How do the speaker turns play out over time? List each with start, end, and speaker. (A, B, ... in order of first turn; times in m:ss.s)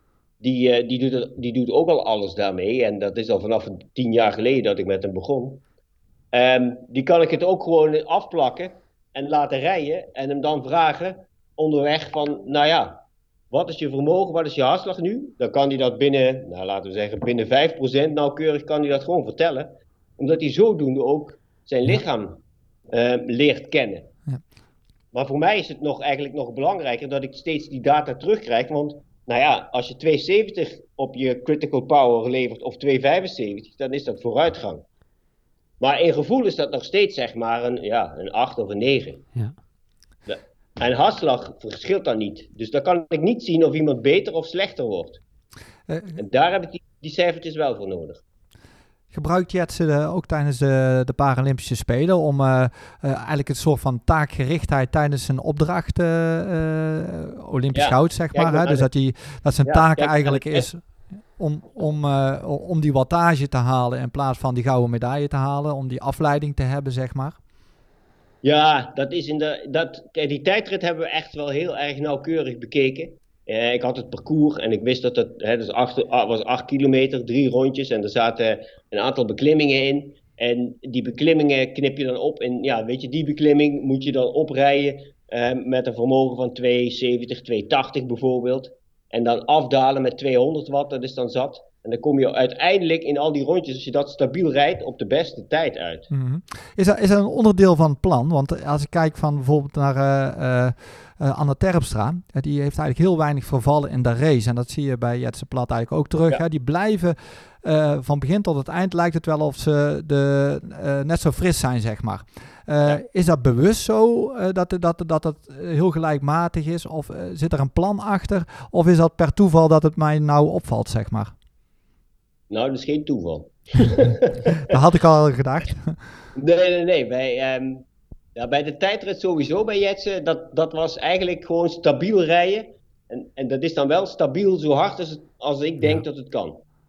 0:00.4-0:05.6 A
0:06.3-0:22.4 A
0:22.9-0:24.1 A
0:25.1-0:34.8 A
0:35.8-0:39.2 A
0:40.3-0:45.2 A
0:45.9-0:46.2 B
0:46.2-0:48.2 A
0:49.1-1:07.4 B
0:57.7-0:58.9 A
0:59.6-1:00.7 A
1:08.4-1:36.1 A
1:36.1-2:01.3 B
2:02.5-2:04.7 A
2:04.6-2:06.0 B
2:06.3-2:07.8 A
2:08.3-2:16.6 A